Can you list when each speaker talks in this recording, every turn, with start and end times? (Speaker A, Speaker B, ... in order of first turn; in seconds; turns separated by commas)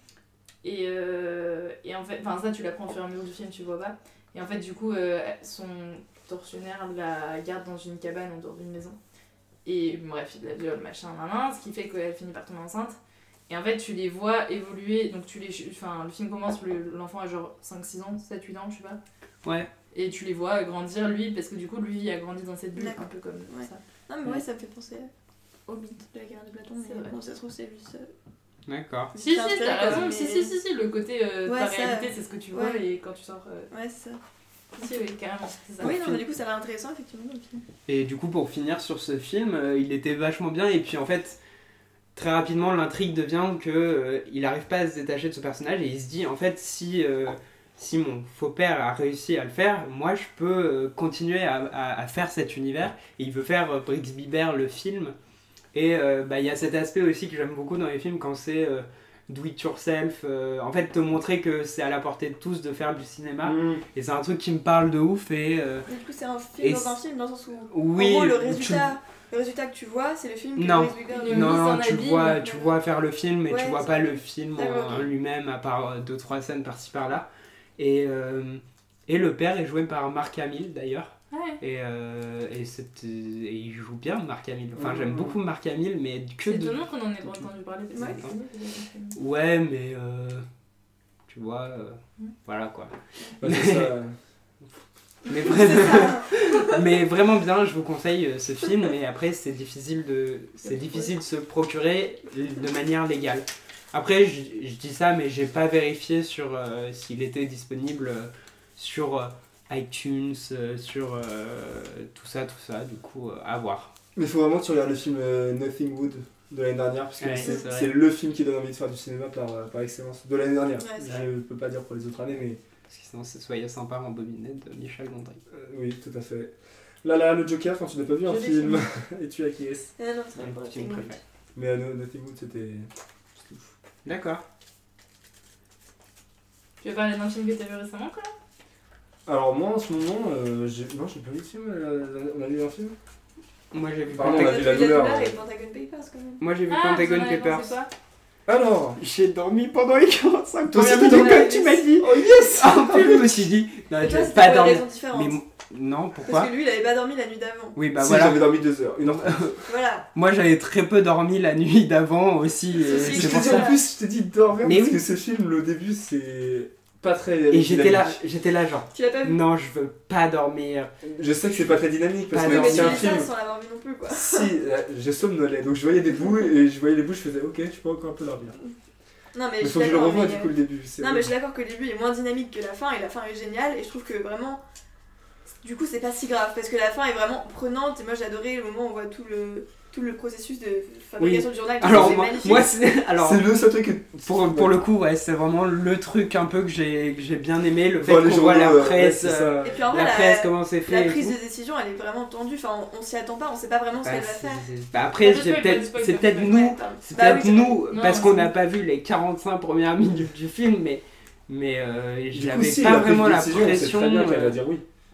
Speaker A: 0.6-9.0, Speaker A: 9.6-12.9, Speaker A: 13.5-19.0, Speaker B: 19.4-19.7, Speaker A: 19.9-23.8, Speaker C: 22.7-25.1, Speaker C: 25.7-28.1, Speaker A: 26.8-27.1, Speaker B: 28.7-29.1, Speaker C: 29.1-30.5, Speaker A: 29.1-33.7, Speaker C: 31.4-32.8, Speaker C: 33.7-34.2, Speaker A: 34.8-36.2, Speaker C: 35.8-37.6, Speaker B: 37.9-41.4, Speaker B: 42.1-55.1, Speaker B: 55.7-65.9, Speaker D: 63.4-63.8, Speaker C: 65.9-71.7, Speaker B: 66.6-67.0, Speaker B: 67.7-69.0, Speaker B: 70.5-77.3, Speaker A: 71.1-72.5, Speaker C: 72.4-72.7, Speaker C: 73.5-75.1, Speaker B: 77.8-86.8, Speaker A: 81.3-81.6, Speaker D: 84.7-85.4, Speaker A: 86.5-89.2, Speaker C: 87.9-88.2, Speaker B: 89.1-90.5, Speaker B: 91.3-93.9, Speaker D: 93.4-94.2, Speaker B: 95.3-113.9, Speaker C: 95.3-96.8, Speaker A: 100.8-101.1, Speaker D: 114.2-122.6, Speaker B: 117.2-117.9, Speaker C: 120.8-121.3, Speaker B: 122.9-125.4, Speaker D: 125.5-126.5, Speaker D: 127.0-129.9, Speaker A: 128.3-128.8, Speaker C: 130.0-131.2, Speaker B: 130.3-131.2, Speaker D: 131.5-133.7, Speaker B: 134.0-134.4, Speaker A: 136.8-138.3, Speaker D: 139.2-142.9, Speaker B: 143.7-144.8, Speaker D: 144.1-145.4, Speaker C: 144.2-146.4, Speaker B: 146.4-147.8, Speaker A: 146.7-147.9, Speaker D: 148.5-149.0, Speaker B: 149.0-156.5, Speaker D: 150.7-153.5, Speaker C: 150.8-151.9, Speaker C: 154.0-155.4, Speaker C: 156.2-157.8, Speaker B: 157.8-163.8, Speaker D: 157.9-159.4, Speaker C: 159.7-160.0, Speaker C: 162.7-163.8, Speaker D: 162.9-168.2, Speaker B: 164.6-165.0, Speaker B: 167.5-170.9, Speaker C: 168.9-169.4, Speaker D: 171.0-173.3, Speaker B: 172.3-173.2, Speaker C: 172.4-174.5, Speaker D: 174.1-178.6, Speaker C: 179.3-184.6, Speaker D: 179.6-181.3, Speaker C: 185.6-192.7, Speaker B: 191.2-193.5, Speaker D: 191.8-194.8, Speaker B: 194.2-201.3, Speaker D: 198.0-199.7, Speaker C: 199.6-204.6, Speaker B: 204.0-214.6, Speaker A: 205.2-206.7, Speaker C: 206.4-207.8, Speaker A: 207.9-208.5, Speaker D: 212.3-214.8